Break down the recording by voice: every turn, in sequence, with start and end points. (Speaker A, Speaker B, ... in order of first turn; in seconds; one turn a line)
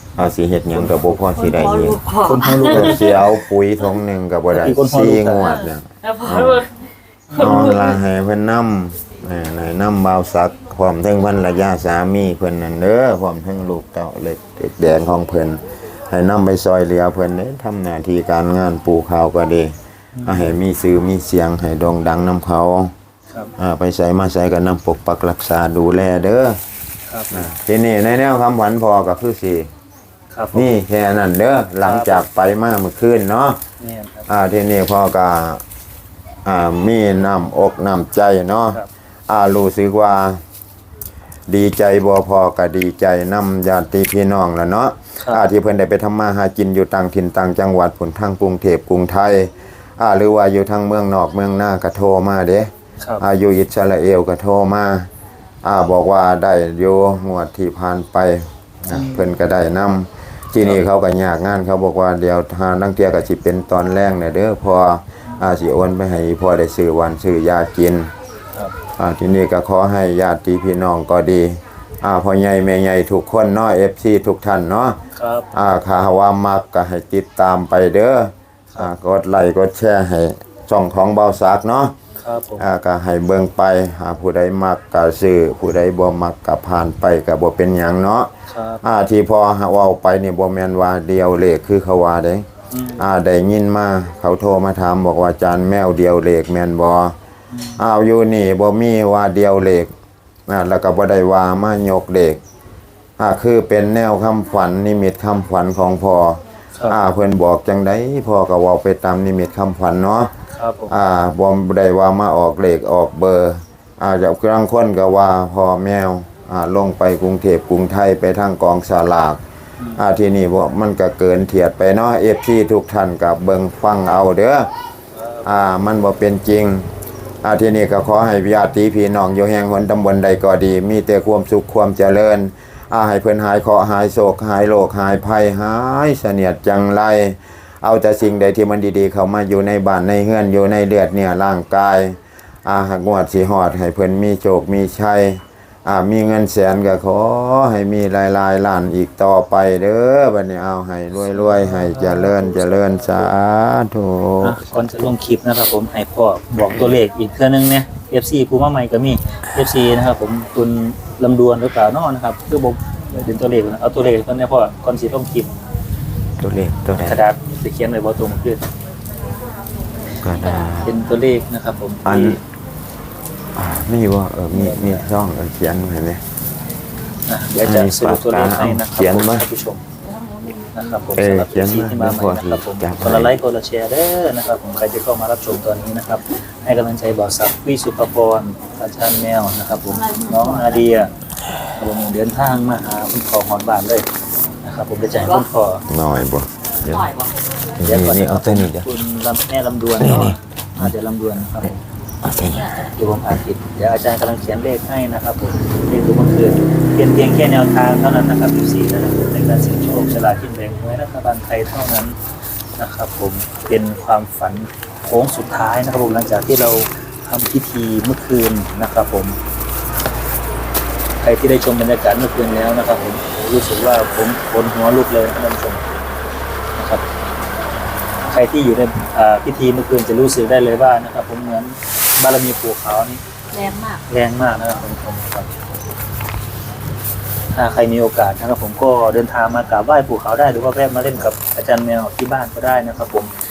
Speaker A: 0.2-2.0
Speaker B: 0.7-1.2
Speaker C: 1.4-3.2
Speaker B: 2.2-3.1
Speaker A: 2.6-6.6
Speaker B: 4.5-5.5
Speaker C: 5.4-8.0
Speaker B: 7.3-7.9
Speaker A: 7.4-19.7
Speaker B: 20.1-20.6
Speaker A: 20.2-22.9
Speaker A: 23.6-26.6
Speaker B: 27.1-27.5
Speaker A: 27.3-29.7
Speaker B: 30.3-30.7
Speaker A: 30.5-33.6
Speaker B: 31.8-32.3
Speaker B: 33.8-34.3
Speaker A: 34.3-35.6
Speaker A: 36.5-40.4
Speaker A: 41.5-55.1
Speaker A: 55.6-68.1
Speaker B: 58.9-59.3
Speaker A: 69.0-75.0
Speaker B: 75.1-75.5
Speaker A: 75.5-82.0
Speaker B: 82.2-82.7
Speaker A: 82.6-97.2
Speaker B: 88.5-88.8
Speaker B: 92.7-93.0
Speaker B: 97.5-97.8
Speaker A: 97.8-99.9
Speaker A: 100.5-102.4
Speaker A: 103.2-110.3
Speaker B: 110.5-110.9
Speaker A: 110.9-119.4
Speaker A: 120.0-124.7
Speaker B: 125.1-125.5
Speaker A: 125.4-126.9
Speaker A: 127.4-155.1
Speaker B: 151.2-152.7
Speaker B: 154.4-165.5
Speaker A: 156.6-156.9
Speaker A: 166.4-167.2
Speaker B: 167.0-168.7
Speaker A: 170.2-170.9
Speaker B: 170.4-172.4
Speaker A: 172.1-172.4
Speaker A: 173.6-176.2
Speaker B: 174.5-175.1
Speaker B: 177.3-179.8
Speaker A: 177.6-179.5
Speaker C: 180.0-181.0
Speaker B: 180.7-191.1
Speaker A: 181.2-183.4
Speaker C: 189.9-190.9
Speaker B: 191.8-194.1
Speaker B: 194.6-195.8
Speaker A: 195.9-197.1
Speaker C: 196.7-197.4
Speaker A: 197.8-198.9
Speaker B: 197.8-201.8
Speaker A: 200.0-200.9
Speaker A: 202.2-202.7
Speaker C: 202.4-202.9
Speaker B: 202.6-212.2
Speaker B: 212.8-219.4
Speaker B: 221.2-225.9
Speaker B: 226.8-227.0
Speaker B: 228.2-233.2
Speaker C: 233.5-234.1
Speaker B: 234.1-235.5
Speaker B: 237.5-243.3